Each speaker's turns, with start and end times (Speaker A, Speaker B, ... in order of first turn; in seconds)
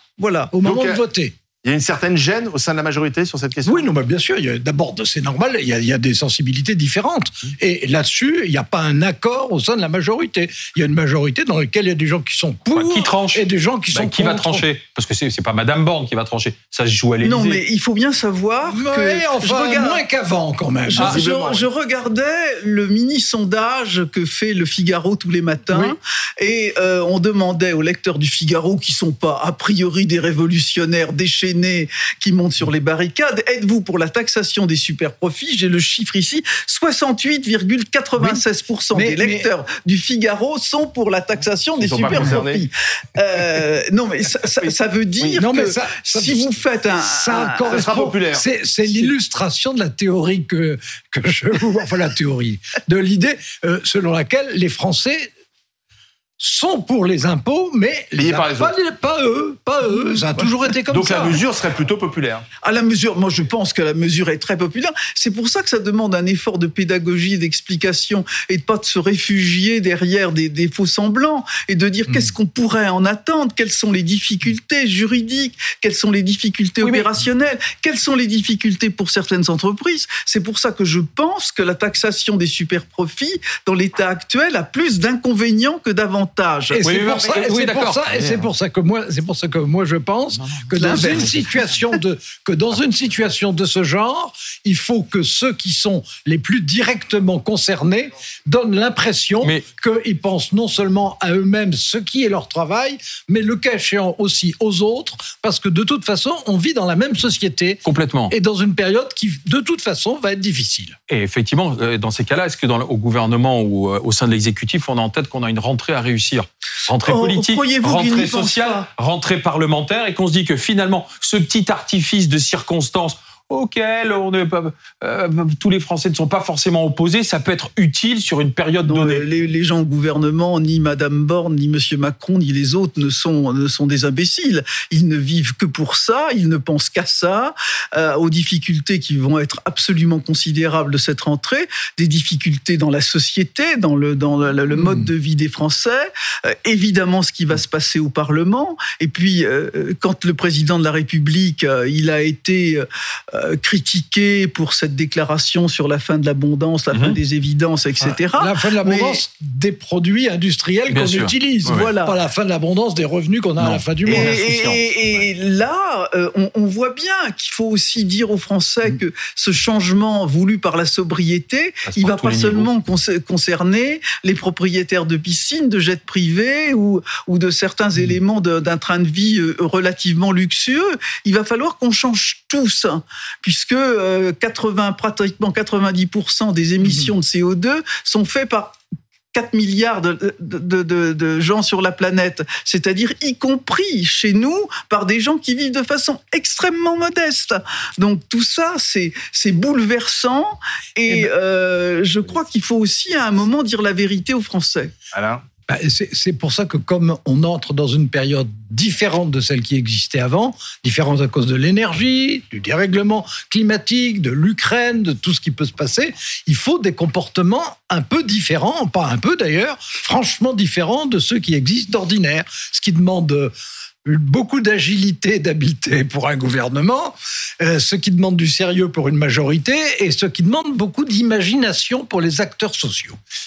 Speaker A: 0.2-0.5, 17.2-20.0, 20.9-47.8, 59.9-60.5, 62.6-86.8, 90.7-91.4, 117.0-118.9, 128.8-159.2, 161.7-162.2, 164.1-188.8, 189.3-204.9
Speaker B: 0.5-1.3, 3.6-14.7, 18.6-21.2, 25.7-25.9, 38.2-39.5, 45.3-55.3, 56.4-61.4, 86.7-111.0, 144.7-145.1, 158.0-164.4, 186.8-187.1, 205.7-223.5, 224.0-233.2
Speaker C: 0.6-1.0, 1.6-3.9, 21.1-21.7, 41.8-42.6, 47.6-49.1, 58.1-58.7, 60.9-62.4, 87.0-87.4, 88.1-88.5, 205.1-205.4
Speaker D: 12.7-17.6, 76.8-77.1, 86.8-88.1, 107.8-108.3, 111.1-129.2, 156.9-157.2, 160.9-161.9, 163.6-164.8, 171.8-172.7